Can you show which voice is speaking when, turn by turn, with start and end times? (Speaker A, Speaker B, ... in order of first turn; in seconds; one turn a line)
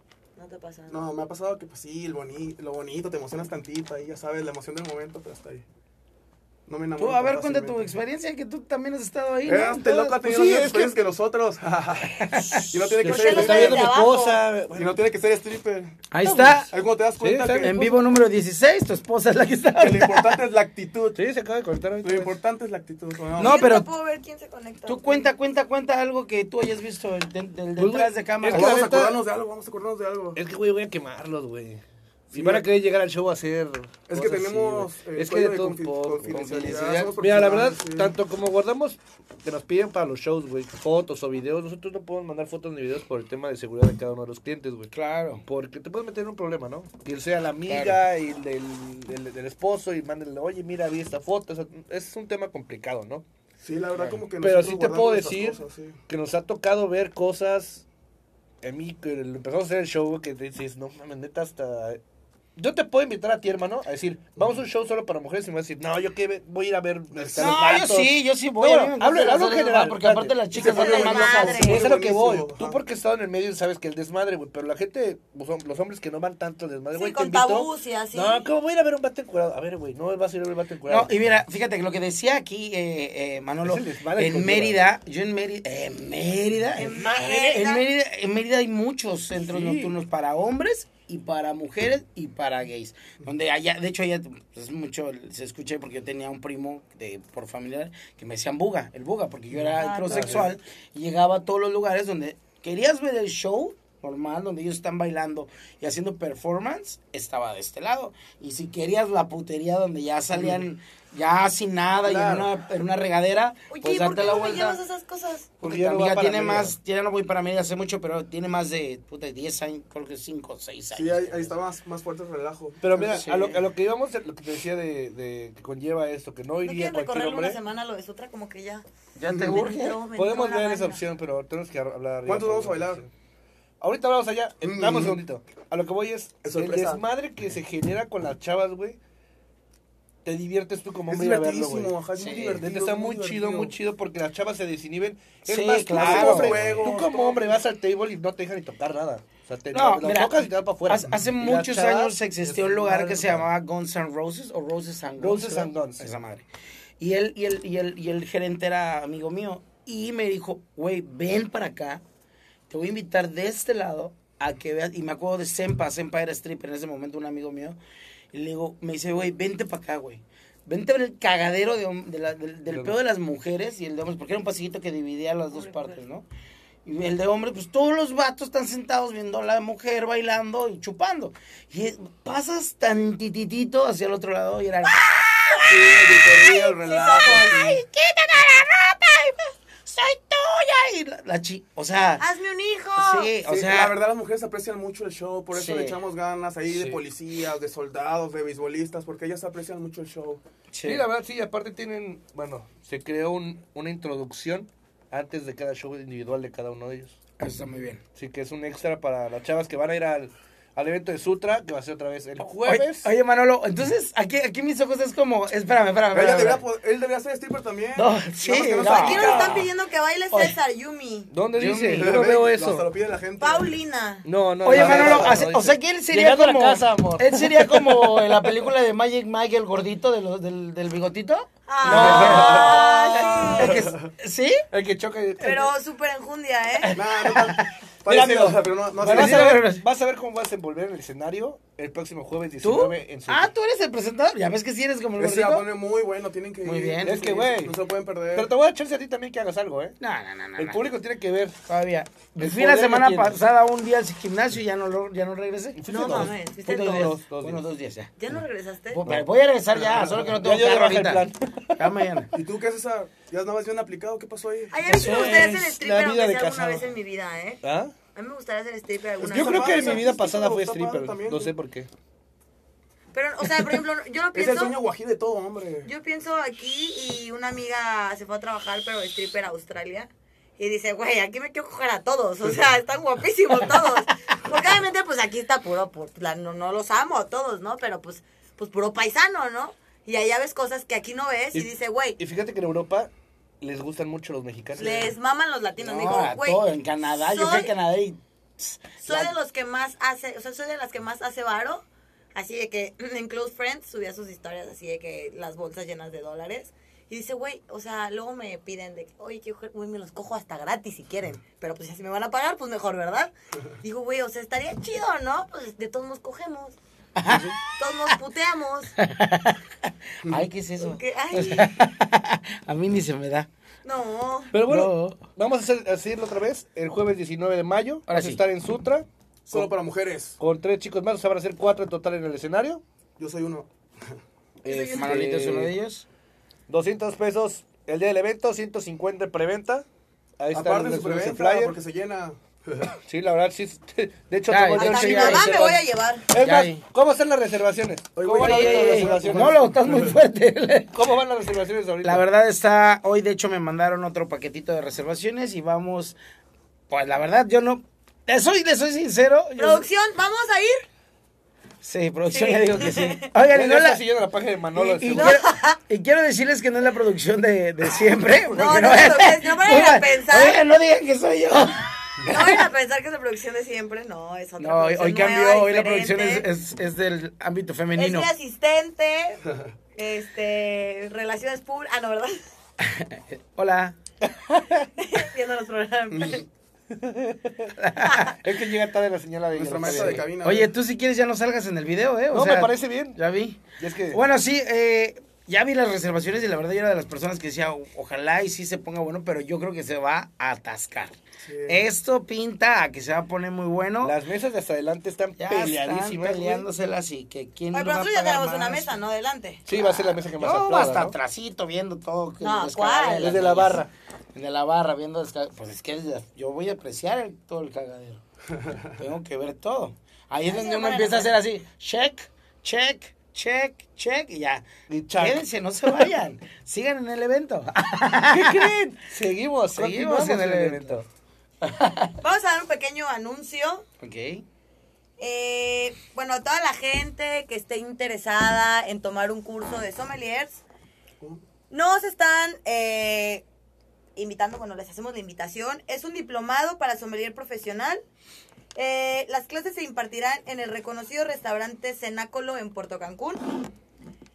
Speaker A: 0.3-1.1
Speaker B: 0.9-5.6
Speaker B: 6.7-7.9
Speaker C: 7.0-10.2
Speaker B: 9.4-14.0
Speaker D: 10.2-10.9
Speaker C: 12.2-12.7
Speaker D: 12.8-14.9
Speaker A: 13.0-14.4
Speaker B: 14.7-16.0
Speaker C: 16.1-16.7
Speaker D: 16.2-16.6
Speaker B: 16.7-17.8
Speaker D: 17.2-18.0
Speaker C: 17.6-20.4
Speaker B: 19.8-21.2
Speaker D: 21.1-22.4
Speaker B: 22.0-23.7
Speaker C: 23.4-23.9
Speaker A: 23.4-25.3
Speaker C: 24.9-28.9
Speaker D: 27.8-29.2
Speaker B: 28.5-30.4
Speaker D: 30.3-44.9
Speaker B: 32.3-32.6
Speaker B: 34.1-38.1
Speaker C: 36.3-37.1
Speaker C: 44.9-45.4
Speaker D: 45.4-53.2
Speaker C: 47.7-48.0
Speaker B: 53.6-56.0
Speaker D: 54.4-57.8
Speaker D: 58.6-62.0
Speaker D: 62.5-81.1
Speaker B: 67.1-67.8
Speaker C: 67.4-71.8
Speaker B: 70.5-72.8
Speaker A: 70.5-71.9
Speaker A: 76.9-78.5
Speaker C: 80.8-114.8
Speaker D: 83.6-84.9
Speaker A: 86.8-87.8
Speaker D: 89.4-89.9
Speaker B: 99.6-100.5
Speaker A: 99.8-100.5
Speaker D: 100.1-100.4
Speaker D: 112.0-112.5
Speaker A: 113.7-115.5
Speaker C: 115.6-121.5
Speaker D: 115.6-116.8
Speaker B: 120.9-123.2
Speaker D: 122.8-127.6
Speaker C: 122.9-123.6
Speaker A: 126.6-128.8
Speaker C: 129.2-130.0
Speaker B: 129.3-129.6
Speaker A: 129.3-131.0
Speaker D: 130.1-133.1
Speaker B: 132.2-133.0
Speaker D: 133.8-139.0
Speaker B: 134.6-135.2
Speaker B: 136.4-137.0
Speaker D: 140.2-153.5
Speaker B: 141.1-143.7
Speaker C: 142.2-142.5
Speaker C: 145.5-146.8
Speaker B: 145.9-147.6
Speaker C: 149.7-156.4
Speaker D: 155.2-156.1
Speaker C: 157.0-162.0
Speaker C: 162.7-167.8
Speaker C: 168.3-176.3
Speaker D: 172.7-172.9
Speaker A: 175.5-176.0
Speaker C: 176.8-185.8
Speaker B: 185.6-187.8
Speaker C: 186.4-186.7
Speaker A: 186.5-187.6
Speaker C: 187.2-192.3
Speaker A: 192.2-193.3
Speaker C: 193.0-193.9
Speaker B: 193.4-200.4
Speaker C: 195.5-196.0
Speaker D: 196.7-197.0
Speaker C: 200.7-201.0
Speaker D: 200.8-207.2
Speaker C: 207.4-208.0
Speaker D: 208.1-213.1
Speaker C: 212.7-216.6
Speaker B: 216.1-219.7
Speaker C: 217.9-219.7
Speaker A: 218.9-221.3
Speaker D: 221.3-222.8
Speaker C: 221.5-222.2
Speaker B: 221.9-223.7
Speaker A: 223.4-224.3
Speaker D: 224.2-228.6
Speaker C: 224.6-234.6
Speaker B: 224.7-225.4
Speaker A: 231.7-233.8
Speaker D: 231.8-232.9
Speaker B: 231.8-234.1
Speaker D: 234.7-235.7
Speaker A: 235.4-236.9
Speaker C: 236.8-237.7
Speaker B: 236.9-239.5
Speaker D: 238.1-243.5
Speaker C: 239.0-239.8
Speaker C: 242.6-245.7
Speaker B: 245.2-248.5
Speaker C: 246.6-247.3
Speaker D: 247.0-247.7
Speaker D: 248.3-249.9
Speaker C: 250.0-250.8
Speaker D: 250.6-251.6
Speaker C: 251.7-258.1
Speaker D: 252.4-253.4
Speaker D: 255.8-257.6
Speaker A: 255.9-257.1
Speaker A: 258.2-259.0
Speaker C: 258.9-261.2
Speaker B: 259.8-260.2
Speaker D: 260.1-261.9
Speaker C: 261.8-262.3
Speaker B: 262.3-264.9
Speaker A: 264.7-267.6
Speaker D: 264.9-266.9
Speaker C: 264.9-265.6
Speaker D: 267.6-267.9
Speaker A: 268.1-270.1
Speaker B: 269.2-271.5
Speaker D: 269.3-271.9
Speaker A: 273.1-274.8
Speaker B: 274.3-275.9
Speaker A: 275.8-292.2
Speaker D: 291.5-293.1
Speaker D: 293.6-295.1
Speaker A: 294.8-296.6
Speaker C: 295.8-299.3
Speaker A: 297.2-297.7
Speaker A: 299.0-313.3
Speaker A: 313.8-316.8
Speaker C: 317.2-317.6
Speaker A: 317.7-318.9
Speaker C: 319.0-319.6
Speaker C: 320.2-323.5
Speaker A: 320.8-321.8
Speaker A: 323.8-324.5
Speaker D: 324.5-329.7
Speaker C: 324.6-325.2
Speaker C: 328.1-328.4
Speaker B: 329.5-330.4
Speaker D: 330.4-332.8
Speaker B: 333.2-334.2
Speaker D: 334.6-335.7
Speaker A: 334.6-335.2
Speaker C: 334.9-336.0
Speaker D: 336.7-339.9
Speaker D: 340.4-341.8
Speaker B: 340.5-342.9
Speaker D: 343.0-349.8
Speaker C: 344.5-345.5
Speaker A: 344.7-346.3
Speaker C: 346.4-346.8
Speaker B: 348.1-350.2
Speaker C: 348.4-350.9
Speaker D: 350.9-352.2
Speaker C: 352.0-356.2
Speaker C: 356.9-359.9
Speaker A: 359.6-360.8
Speaker C: 361.8-364.0
Speaker A: 362.3-363.3
Speaker D: 363.5-365.4
Speaker C: 364.7-372.6
Speaker A: 365.1-365.8
Speaker A: 368.5-370.6
Speaker A: 372.3-376.5
Speaker C: 374.6-378.3
Speaker A: 377.9-379.4
Speaker A: 379.9-382.4
Speaker C: 382.8-383.9
Speaker D: 384.2-384.9
Speaker A: 385.0-386.4
Speaker D: 386.9-387.7
Speaker C: 387.8-388.3
Speaker A: 388.0-388.3
Speaker D: 388.4-390.3
Speaker B: 389.5-390.7
Speaker C: 389.8-401.1
Speaker D: 392.3-393.2
Speaker D: 393.8-394.2
Speaker B: 401.4-401.8
Speaker C: 401.7-404.1
Speaker D: 404.0-406.7
Speaker C: 405.4-408.9
Speaker A: 407.7-409.6
Speaker D: 409.6-411.1
Speaker C: 409.8-418.2
Speaker A: 412.4-413.4
Speaker D: 413.2-413.9
Speaker C: 418.8-428.7
Speaker A: 420.4-421.3
Speaker D: 424.9-426.1
Speaker D: 428.3-431.0
Speaker C: 429.7-431.0
Speaker C: 431.6-432.2
Speaker A: 432.2-433.8
Speaker C: 434.0-434.4
Speaker A: 435.2-440.6
Speaker A: 441.7-443.4
Speaker A: 444.1-448.0
Speaker A: 448.7-453.6